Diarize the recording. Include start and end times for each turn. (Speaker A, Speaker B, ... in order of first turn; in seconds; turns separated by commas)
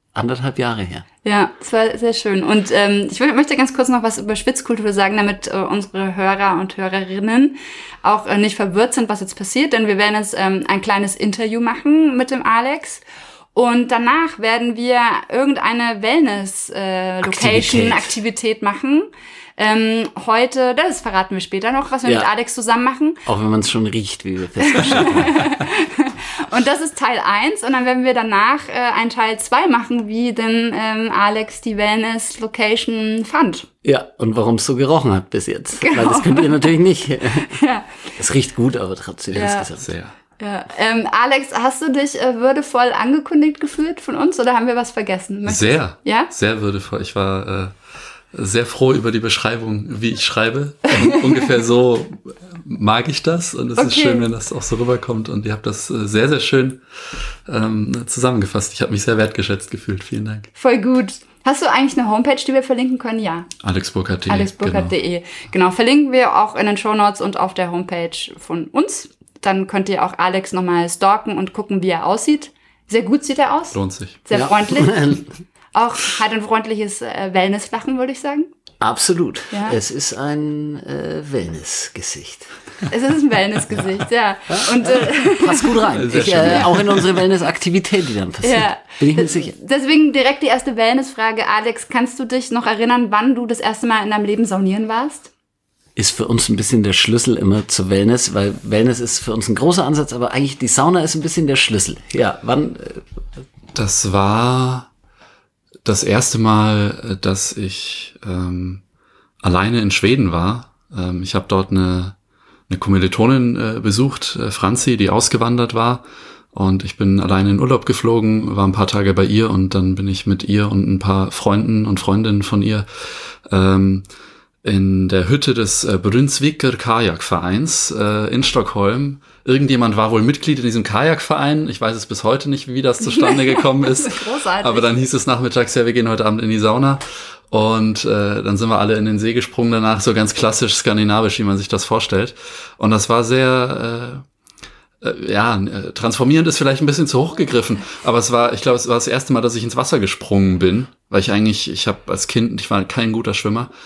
Speaker A: 0.1-1.1, Speaker B: 1.2-23.2, Speaker A: 17.2-18.1, Speaker A: 23.2-25.5, Speaker B: 24.7-33.7, Speaker A: 33.8-37.6, Speaker B: 35.8-36.8, Speaker B: 37.3-37.9, Speaker A: 38.2-39.9, Speaker B: 39.3-39.7, Speaker C: 39.3-40.1, Speaker B: 40.4-46.3, Speaker C: 45.4-47.7, Speaker C: 48.3-56.8, Speaker B: 53.8-54.3, Speaker C: 57.5-60.5, Speaker B: 60.5-63.5, Speaker C: 63.6-64.9, Speaker B: 64.2-78.5, Speaker C: 73.7-74.2, Speaker A: 74.3-75.2, Speaker A: 78.8-82.5, Speaker B: 79.5-79.8, Speaker B: 82.9-85.9, Speaker A: 84.5-89.5, Speaker C: 85.9-87.2, Speaker B: 88.4-95.3, Speaker A: 96.0-103.0, Speaker C: 103.8-104.9, Speaker C: 105.8-108.8, Speaker C: 109.4-112.1, Speaker C: 112.7-122.9, Speaker C: 123.5-124.1, Speaker C: 124.6-144.2, Speaker B: 133.0-135.1, Speaker C: 145.0-153.7